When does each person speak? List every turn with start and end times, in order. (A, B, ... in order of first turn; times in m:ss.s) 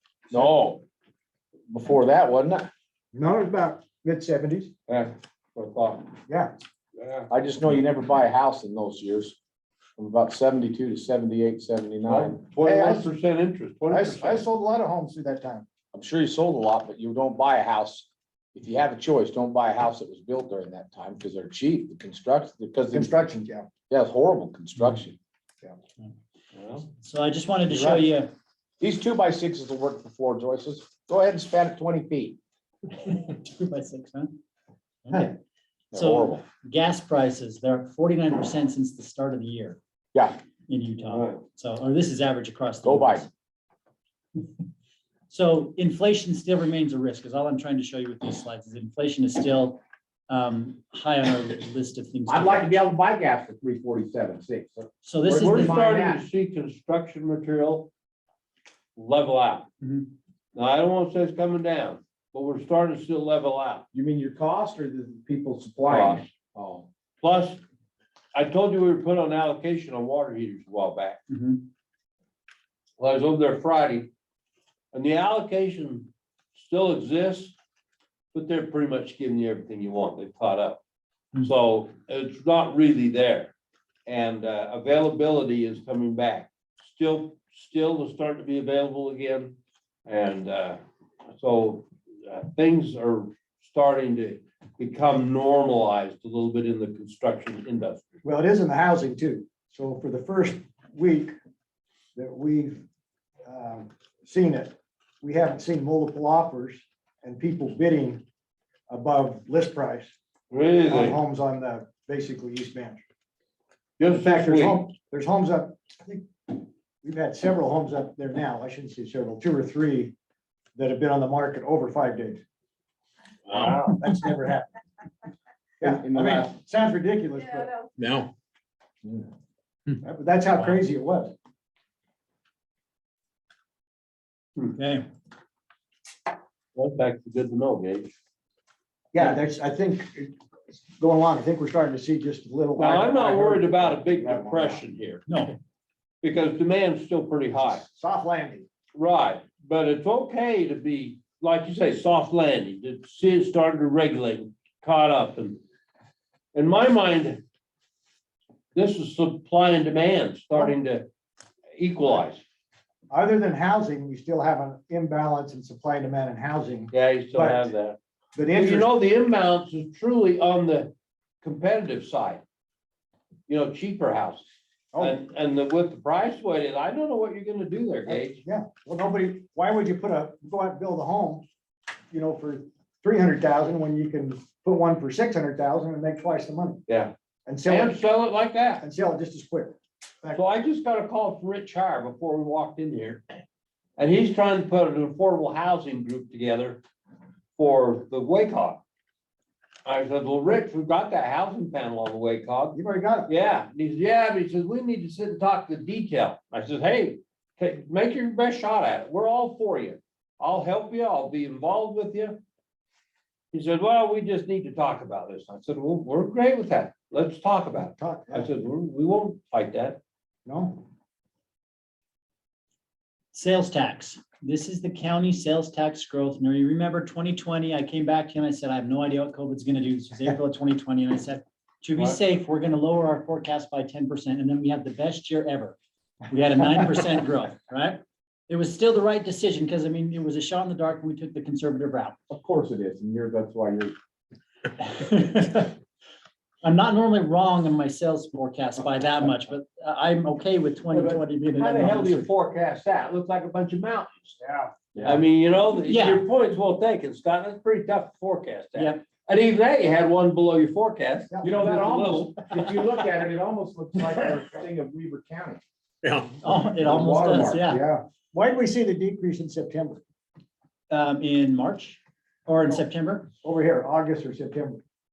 0:00.3-0:00.8 A
0:01.7-0:02.7 A
0:03.1-0:04.7 B
0:04.9-0:06.1 C
0:06.3-0:06.5 B
0:07.0-0:07.3 C
0:07.3-0:09.4 A
0:10.0-0:12.4 A
0:12.1-0:14.5 C
0:12.6-0:13.1 B
0:13.9-0:15.6 B
0:15.9-0:23.1 A
0:22.9-0:23.7 B
0:23.9-0:25.2 A
0:26.5-0:26.8 C
0:26.9-0:28.3 D
0:27.7-0:28.1 B
0:28.8-0:32.4 A
0:32.9-0:34.4 D
0:35.1-0:35.4 D
0:35.9-0:36.4 A
0:35.9-0:39.8 D
0:40.1-0:40.4 A
0:40.7-0:43.3 D
0:41.0-0:41.4 C
0:42.8-0:43.3 A
0:45.3-0:52.8 D
0:52.3-0:56.2 A
0:55.0-0:55.8 D
0:55.4-0:57.9 C
0:59.0-0:59.7 C
0:59.8-1:00.1 D
1:00.6-1:03.9 C
1:03.9-1:06.9 A
1:05.9-1:06.3 C
1:07.2-1:07.6 C
1:08.3-1:11.2 C
1:11.3-1:11.6 D
1:13.0-1:14.1 C
1:14.9-1:17.6 C
1:18.3-1:20.8 C
1:21.4-1:23.5 C
1:24.1-1:38.1 C
1:38.2-1:41.3 B
1:42.2-1:42.8 B
1:43.5-1:48.2 B
1:48.9-1:50.1 B
1:50.5-1:51.2 C
1:50.9-1:53.0 B
1:54.0-1:54.9 C
1:54.1-2:00.1 B
2:00.8-2:02.4 B
2:03.5-2:04.0 C
2:03.6-2:04.7 B
2:05.8-2:07.8 B
2:05.8-2:06.5 A
2:08.0-2:08.3 A
2:10.0-2:11.3 B
2:14.8-2:15.1 D
2:16.8-2:18.2 C
2:19.1-2:20.4 B
2:21.0-2:24.8 B
2:22.8-2:25.2 C
2:25.3-2:25.6 D
2:26.2-2:27.8 C
2:27.8-2:28.7 B
2:29.0-2:35.6 C
2:36.5-2:37.4 C
2:38.8-2:41.1 C
2:41.8-2:42.4 C
2:43.1-2:47.7 B
2:46.9-2:48.0 C
2:48.4-2:48.9 B
2:48.5-2:52.4 C
2:53.5-2:54.4 C
2:55.0-2:58.4 C
2:58.1-3:01.4 B
3:02.1-3:06.8 B
3:06.9-3:07.1 C
3:07.5-3:08.0 B
3:07.7-3:08.8 C
3:08.8-3:10.4 B
3:10.3-3:13.2 C
3:14.0-3:16.8 C
3:17.6-3:18.8 C
3:19.8-3:32.4 C
3:22.8-3:23.3 B
3:33.5-3:40.0 C
3:38.0-3:38.5 B
3:40.4-3:40.9 B
3:43.3-3:55.8 D
3:56.3-4:02.2 D
4:02.3-4:04.0 A
4:04.8-4:05.8 D
4:06.6-4:12.3 D
4:11.0-4:14.4 C
4:14.4-4:14.7 B
4:15.0-4:15.2 A
4:15.0-4:22.4 C
4:15.8-4:16.3 D
4:18.8-4:19.0 D
4:21.3-4:21.6 B
4:21.4-4:27.6 A
4:26.4-4:27.8 D
4:27.6-4:30.0 B
4:30.9-4:33.3 D
4:33.4-4:34.8 B